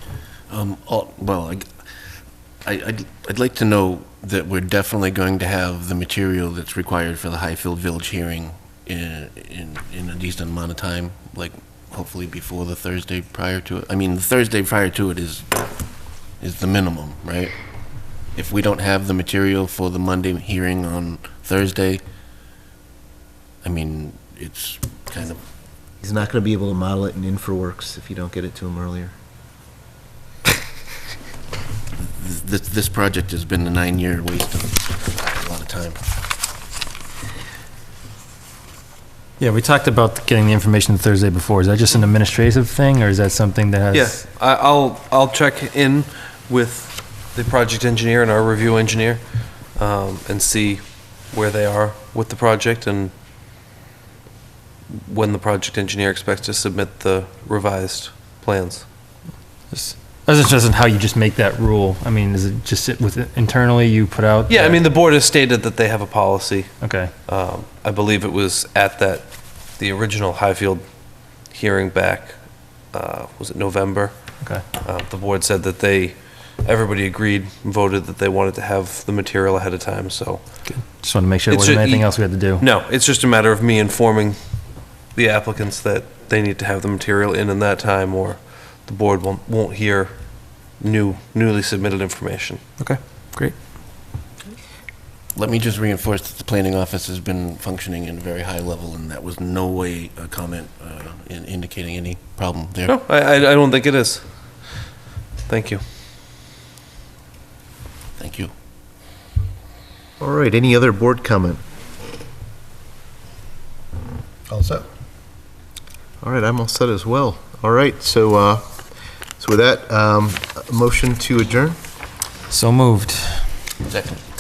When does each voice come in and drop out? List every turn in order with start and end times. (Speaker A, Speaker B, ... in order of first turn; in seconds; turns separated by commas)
Speaker A: 0.5-1.6, Speaker A: 2.6-15.6, Speaker A: 16.4-17.5, Speaker A: 18.3-22.0, Speaker A: 23.6-25.4, Speaker B: 26.0-29.1, Speaker A: 32.0-36.0, Speaker C: 39.4-44.2, Speaker D: 43.9-53.1, Speaker D: 54.9-58.9, Speaker C: 59.7-64.8, Speaker D: 64.5-66.7, Speaker C: 66.8-67.1, Speaker D: 67.3-70.8, Speaker D: 71.5-72.4, Speaker D: 72.9-74.2, Speaker D: 74.8-80.7, Speaker C: 80.7-82.7, Speaker D: 81.5-84.4, Speaker D: 85.1-92.6, Speaker C: 92.8-93.5, Speaker A: 95.3-103.0, Speaker D: 102.9-104.2, Speaker D: 105.5-105.8, Speaker A: 108.2-108.5, Speaker B: 110.2-111.6, Speaker B: 116.2-118.7, Speaker B: 119.4-121.8, Speaker C: 122.5-123.5, Speaker A: 123.9-124.2